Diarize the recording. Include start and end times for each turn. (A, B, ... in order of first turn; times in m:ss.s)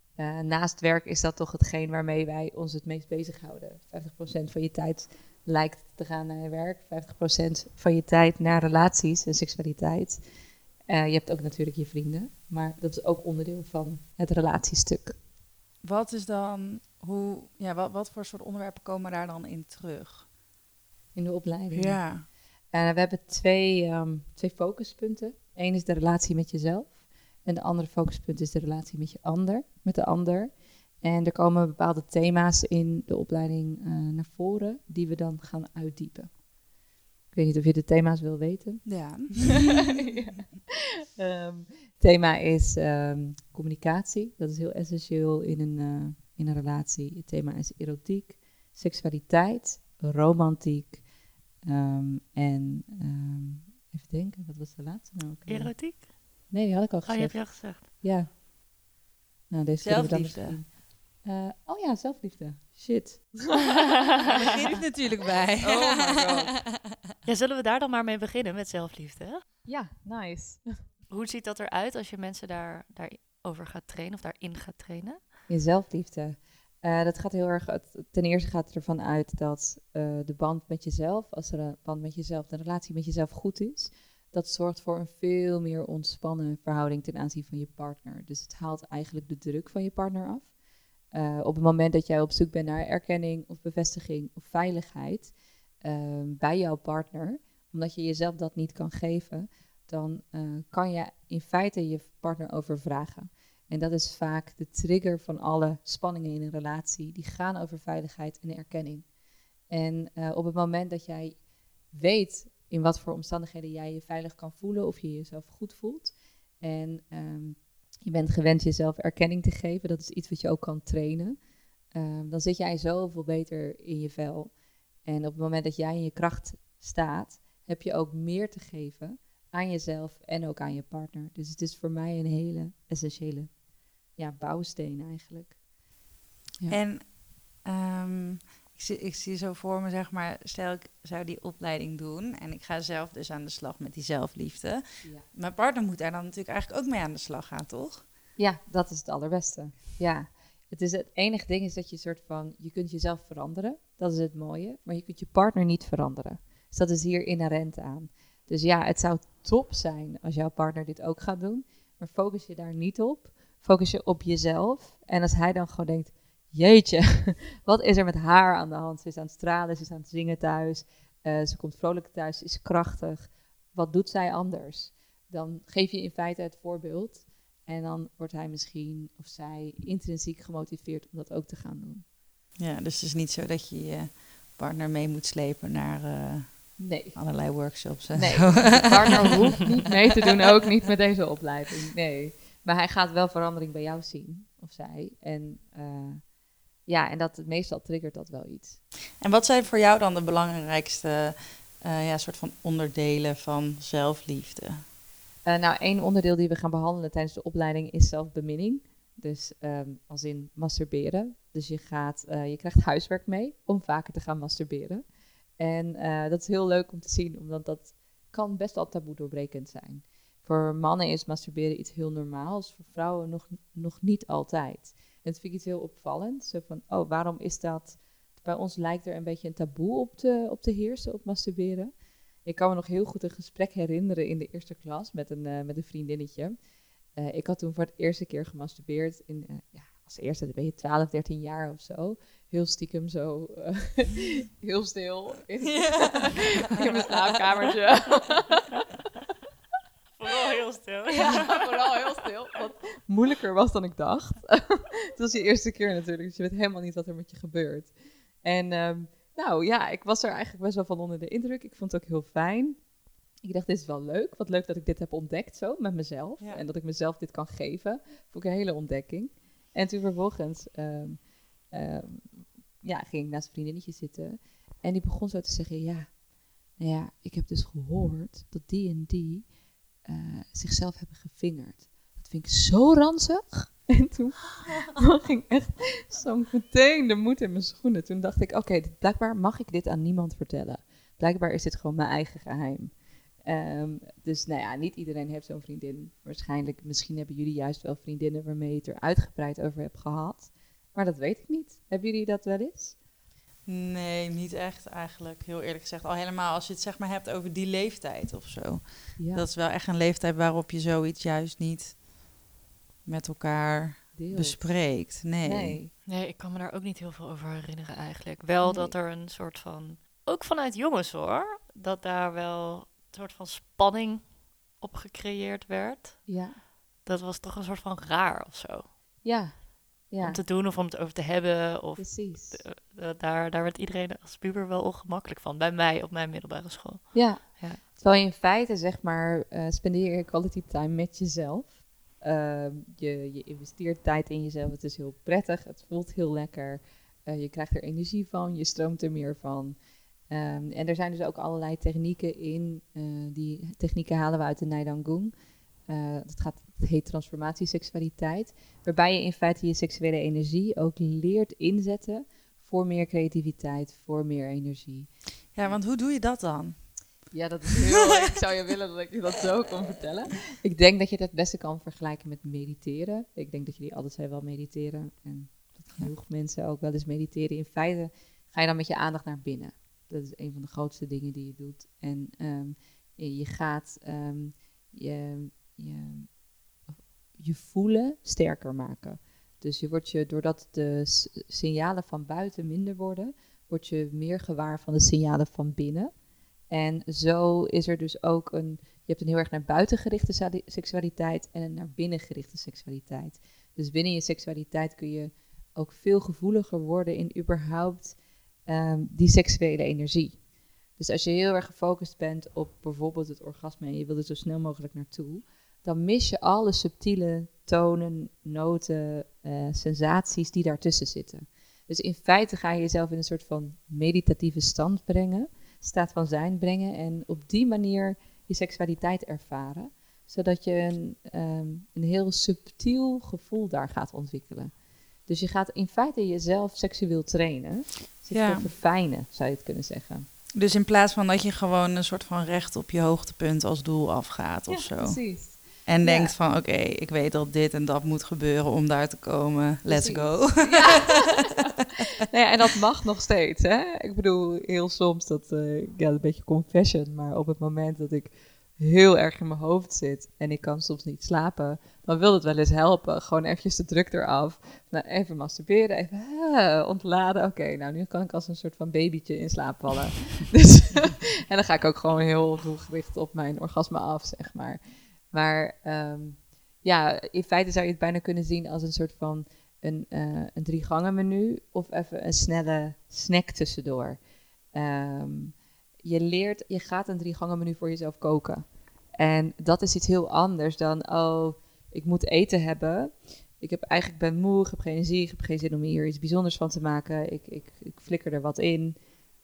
0:00.2-0:10.2 A
0:10.9-0:15.2 A
0:15.8-0:20.3 B
0:21.1-0:36.4 A
0:21.7-0:22.3 B
0:37.3-0:51.0 A
0:38.8-0:39.9 B
0:51.6-0:58.3 A
0:55.4-0:56.1 C
0:57.0-0:57.8 C
0:59.5-1:03.8 A
0:59.8-1:00.6 B
1:04.2-1:06.8 B
1:05.6-1:06.5 A
1:07.2-1:09.4 C
1:09.6-1:10.8 A
1:11.1-1:15.2 C
1:15.5-1:30.5 A
1:31.1-1:49.1 A
1:49.7-2:01.4 A
2:01.9-2:04.5 A
2:05.0-2:13.6 A
2:14.1-2:15.6 A
2:16.7-2:28.0 B
2:28.4-3:02.0 A
3:02.6-3:09.4 B
3:06.8-3:07.2 A
3:08.1-3:16.3 A
3:16.8-3:18.8 A
3:19.2-3:24.8 B
3:25.4-3:35.0 A
3:35.6-3:51.9 A
3:52.4-3:56.6 A
3:57.1-4:08.7 A
4:05.6-4:06.5 B
4:10.2-4:12.2 C
4:11.1-4:22.8 A
4:23.4-4:36.2 A
4:36.7-5:03.0 A
5:03.6-5:12.0 B
5:09.2-5:09.5 A
5:13.0-5:15.8 B
5:14.1-5:14.9 A
5:15.4-5:15.9 A
5:16.0-5:26.5 C
5:18.6-5:19.0 A
5:26.2-5:26.6 A
5:27.0-5:28.9 C
5:29.2-5:30.4 A
5:30.2-5:37.8 C
5:32.0-5:32.6 A
5:37.1-5:49.8 A
5:50.3-5:55.3 A
5:55.9-6:05.1 A
6:05.5-6:07.0 B
6:07.3-6:26.4 A
6:07.9-6:08.3 B
6:27.3-6:36.1 A
6:36.7-6:50.4 A
6:51.0-7:20.2 A
7:18.3-7:18.7 B
7:20.5-7:31.2 B
7:24.7-7:26.3 A
7:29.8-8:04.2 A
8:04.7-8:19.0 A